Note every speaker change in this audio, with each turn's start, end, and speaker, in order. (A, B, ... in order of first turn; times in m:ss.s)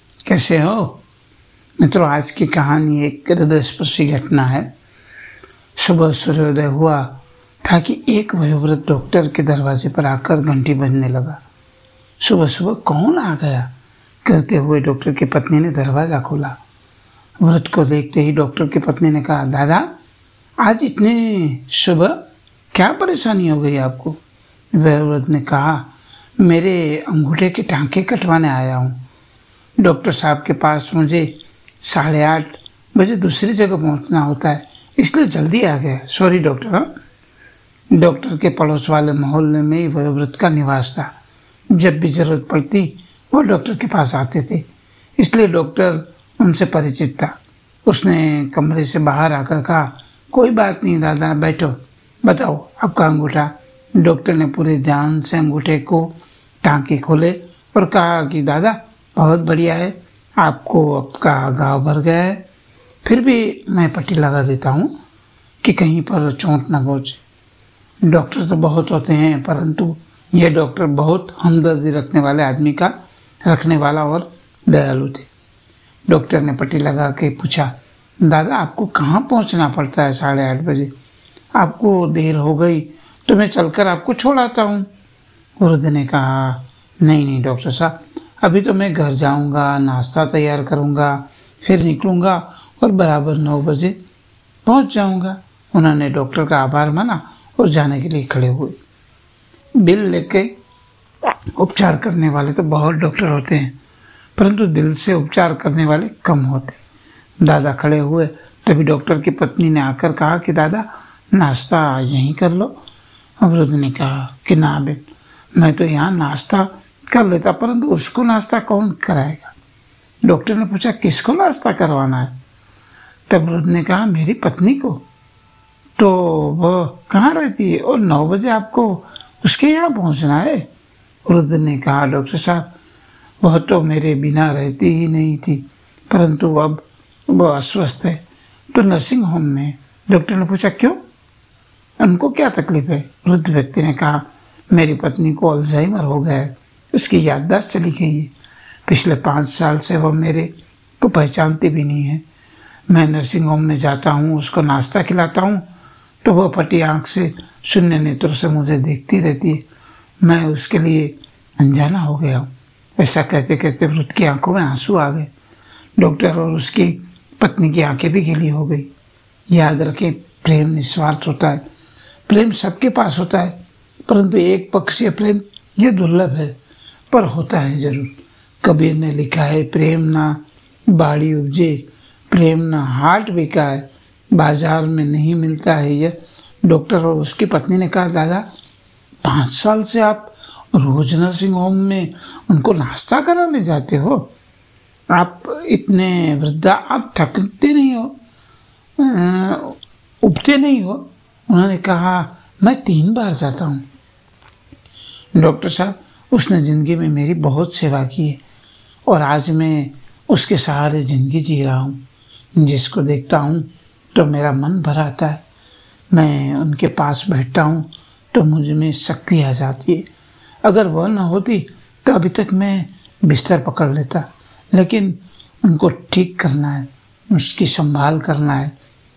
0:00.2-0:01.0 A
0:01.8-0:04.7 A
0:05.8-0:11.4 A
0:12.2-0:13.7 A
0:14.2-0:16.6 A
0:17.4-0:19.9 A
0:20.6-0:22.2 A
0:22.7-0:24.2 A
0:24.7-0:29.0 A
0:29.8-0:36.9 A
0:37.9-0:41.1 A
0:41.7-0:44.7 A
0:45.2-0:47.4 A
0:47.9-1:02.4 A
1:03.0-1:04.9 A
1:05.6-1:07.2 A
1:08.1-1:15.3 A
1:16.1-1:20.9 A
1:21.6-1:24.9 A
1:25.6-1:34.0 A
1:34.6-1:38.8 A
1:39.8-1:40.5 A
1:41.6-1:43.8 A
1:44.4-1:46.8 A
1:47.4-1:52.8 A
1:53.4-1:55.0 A
1:55.6-1:59.6 A
2:00.2-2:02.4 A
2:03.3-2:05.0 A
2:06.0-2:10.7 A
2:11.2-2:12.7 A
2:13.4-2:21.0 A
2:22.0-2:28.3 A
2:28.9-2:32.2 A
2:32.9-2:35.6 A
2:36.2-2:39.6 A
2:40.2-2:45.3 A
2:46.0-2:48.9 A
2:49.5-2:51.6 A
2:52.3-2:56.6 A
2:57.1-3:08.4 A
3:09.2-3:14.3 A
3:15.1-3:18.1 A
3:19.0-3:23.8 A
3:25.4-3:28.4 A
3:29.1-3:32.0 A
3:32.6-3:35.4 A
3:36.1-3:40.1 A
3:40.6-3:48.7 A